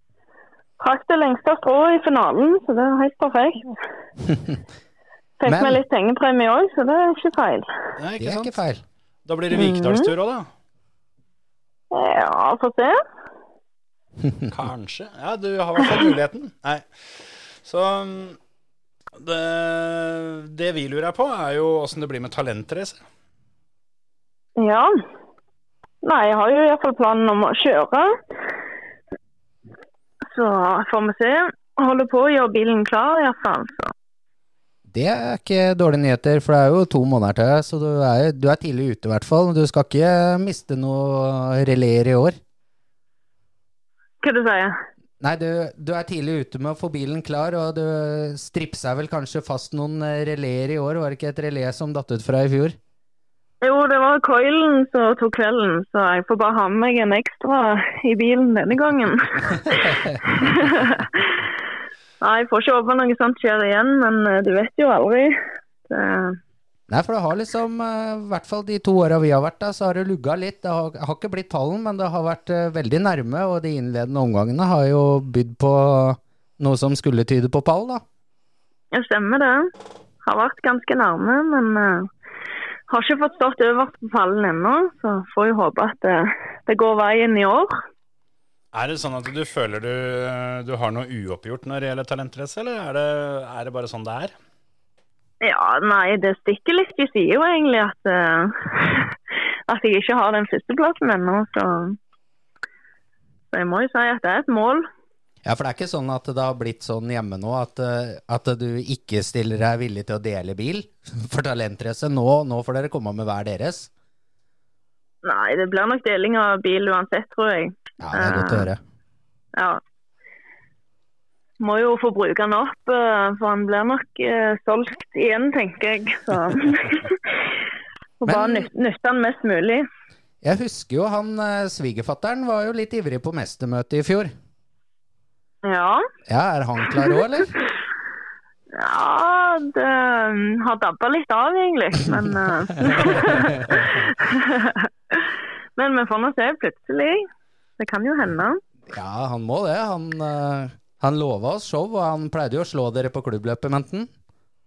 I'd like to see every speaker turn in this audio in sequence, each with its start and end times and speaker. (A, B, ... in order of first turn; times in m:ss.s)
0:00.8-0:03.7 A
0:05.4-0:07.7 A
0:05.5-0:05.8 B
0:08.0-0:08.6 C
0:08.2-0:08.8 B
0:09.3-0:10.5 C
0:09.5-0:10.1 A
0:11.9-0:13.0 A
0:14.5-0:18.4 C
0:19.2-0:23.0 C
0:24.6-0:24.9 A
0:26.0-0:28.1 A
0:30.3-0:33.9 A
0:34.9-0:42.4 B
0:44.2-0:44.8 A
0:45.2-0:52.8 B
0:53.6-1:01.4 A
1:02.2-1:05.4 A
1:05.9-1:06.4 A
1:06.9-1:18.0 B
1:18.9-1:19.7 A
1:20.2-1:22.1 A
1:22.9-1:27.7 A
1:28.7-1:34.3 C
1:35.4-1:39.2 A
1:39.7-1:42.0 A
1:43.5-1:44.9 A
1:45.4-1:53.9 B
1:55.2-1:58.7 A
1:58.0-1:58.8 B
1:59.6-1:59.8 A
2:01.6-2:07.2 A
2:08.2-2:09.8 A
2:08.3-2:08.7 B
2:10.4-2:14.3 B
2:15.6-2:16.0 A
2:16.3-2:17.5 B
2:18.7-2:27.2 A
2:27.8-2:28.6 A
2:28.9-2:34.1 B